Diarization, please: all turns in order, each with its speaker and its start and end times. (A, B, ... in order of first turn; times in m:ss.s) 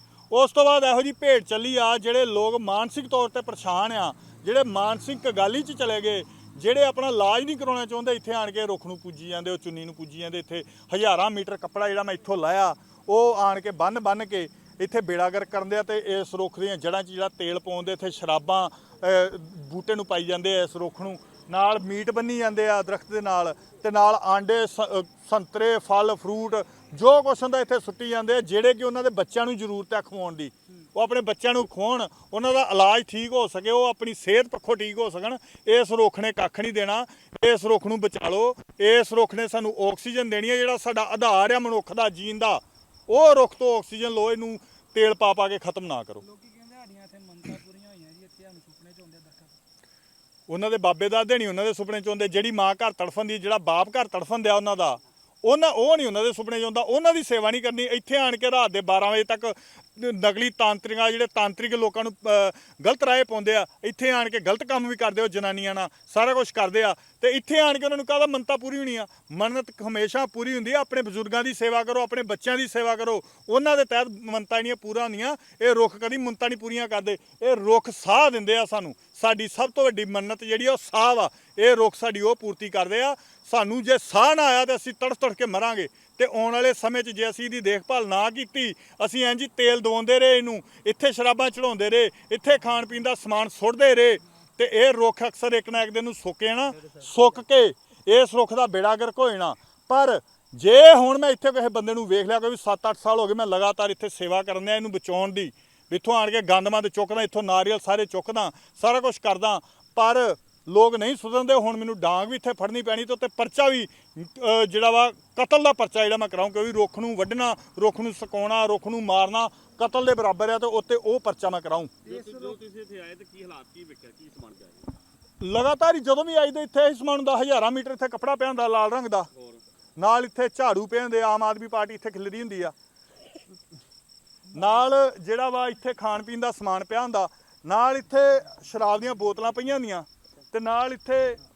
0:00.3-0:46.2 A
0:46.2-0:49.6 B
0:50.5-2:01.9 A
2:02.0-2:02.6 B
2:02.0-2:04.9 C
2:05.4-2:09.3 A
2:10.0-2:12.7 A
2:14.5-2:21.4 A